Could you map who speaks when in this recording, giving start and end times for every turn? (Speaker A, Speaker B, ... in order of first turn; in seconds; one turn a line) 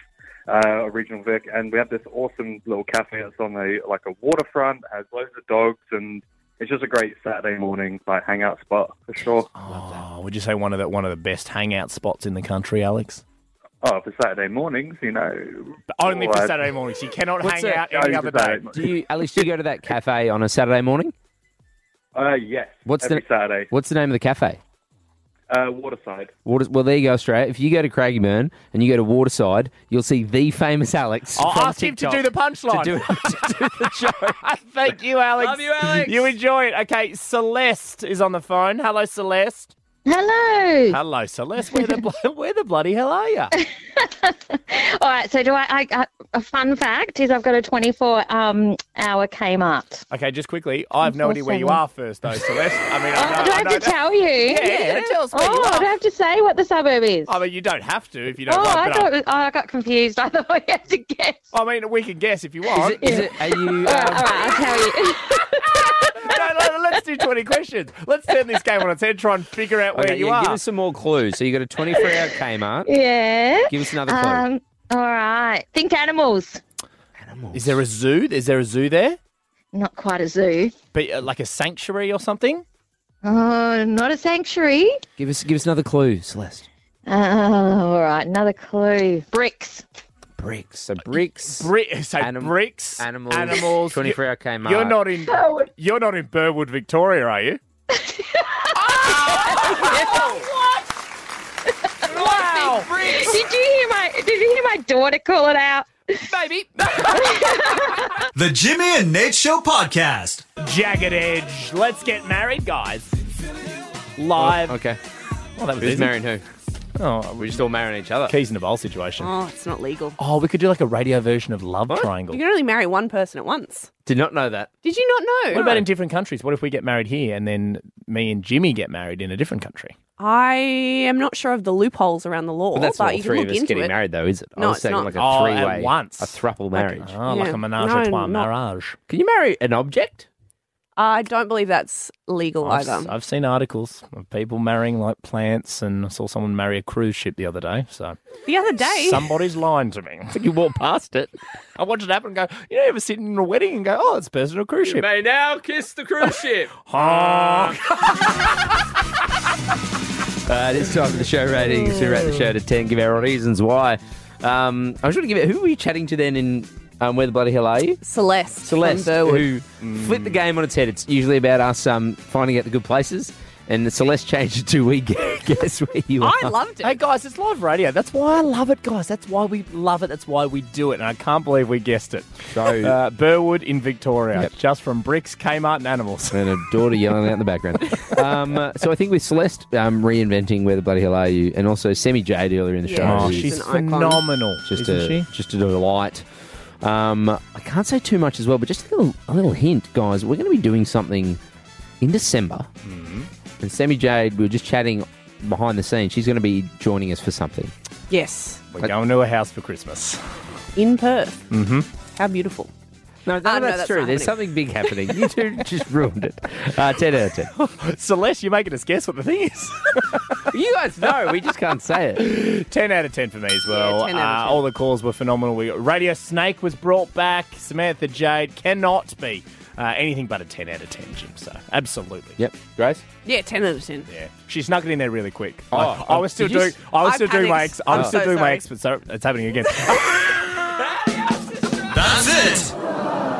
Speaker A: 0.5-9.5
Speaker B: 9.5-13.2
Speaker C: 9.7-10.0
Speaker A: 13.8-16.7
Speaker B: 15.9-18.8
Speaker C: 17.4-17.8
Speaker A: 17.8-18.8
Speaker C: 18.7-21.1
Speaker A: 22.1-23.7
Speaker C: 22.8-24.6
Speaker A: 25.5-26.3
Speaker C: 26.4-34.4
Speaker B: 31.4-33.8
Speaker B: 34.4-39.7
Speaker C: 35.4-36.3
Speaker D: 40.0-41.0
Speaker B: 40.9-43.5
Speaker D: 41.7-42.0
Speaker D: 43.6-50.0
Speaker B: 50.1-55.9
Speaker D: 51.0-52.5
Speaker D: 53.1-57.4
Speaker B: 57.2-59.1
Speaker D: 58.5-61.5
Speaker B: 61.5-63.2
Speaker C: 62.7-64.5
Speaker D: 63.0-67.0
Speaker B: 66.2-70.6
Speaker C: 69.9-72.9
Speaker D: 72.8-76.6
Speaker C: 73.7-74.5
Speaker C: 77.2-77.8
Speaker B: 77.5-79.2
Speaker D: 79.7-80.7
Speaker B: 80.9-82.6
Speaker D: 83.2-85.0
Speaker C: 85.2-86.7
Speaker D: 87.1-89.8
Speaker C: 90.4-95.0
Speaker B: 91.4-97.6
Speaker D: 95.3-95.7
Speaker D: 97.9-100.4
Speaker C: 99.5-100.2
Speaker B: 99.6-100.3
Speaker B: 102.1-103.3
Speaker D: 102.1-106.1
Speaker C: 102.5-103.2
Speaker C: 106.3-106.8
Speaker D: 107.0-108.1
Speaker E: 108.3-110.4
Speaker B: 110.6-113.1
Speaker B: 114.2-114.8
Speaker C: 114.3-115.0
Speaker B: 115.6-116.2
Speaker C: 115.8-116.4
Speaker B: 117.0-117.7
Speaker C: 117.4-118.4
Speaker B: 118.2-119.3
Speaker F: 119.2-120.2
Speaker B: 120.2-122.4
Speaker F: 122.3-123.9
Speaker C: 124.0-124.7
Speaker F: 124.8-125.7
Speaker B: 125.5-129.9
Speaker C: 125.5-125.9
Speaker F: 130.2-133.9
Speaker C: 132.7-137.2
Speaker F: 134.6-135.1
Speaker B: 135.1-138.9
Speaker F: 137.3-138.5
Speaker C: 139.1-140.3
Speaker F: 141.0-143.1
Speaker B: 142.6-148.2
Speaker F: 148.4-149.3
Speaker B: 148.8-150.4
Speaker C: 150.3-151.3
Speaker B: 151.8-155.1
Speaker C: 154.8-157.8
Speaker B: 156.8-157.8
Speaker C: 160.4-168.0
Speaker F: 168.0-169.5
Speaker C: 168.6-176.5
Speaker B: 169.8-170.4
Speaker F: 176.2-177.0
Speaker B: 176.8-186.4
Speaker C: 182.5-182.9
Speaker C: 186.3-193.6
Speaker F: 192.8-194.2
Speaker B: 193.0-195.3
Speaker C: 194.7-196.2
Speaker C: 196.8-201.4
Speaker C: 202.0-202.7
Speaker B: 202.8-203.3
Speaker C: 203.6-207.7
Speaker F: 208.1-208.6
Speaker B: 208.7-210.2
Speaker F: 210.8-211.4
Speaker B: 211.5-211.9
Speaker F: 212.2-212.7
Speaker C: 213.2-217.5
Speaker F: 213.4-214.4
Speaker B: 217.6-220.4
Speaker C: 220.5-222.3
Speaker B: 222.2-232.4
Speaker F: 223.7-224.6
Speaker C: 232.4-233.0
Speaker F: 233.2-234.1
Speaker B: 234.1-240.6
Speaker C: 235.7-236.8
Speaker F: 237.0-238.6
Speaker C: 237.9-238.2
Speaker E: 241.9-242.7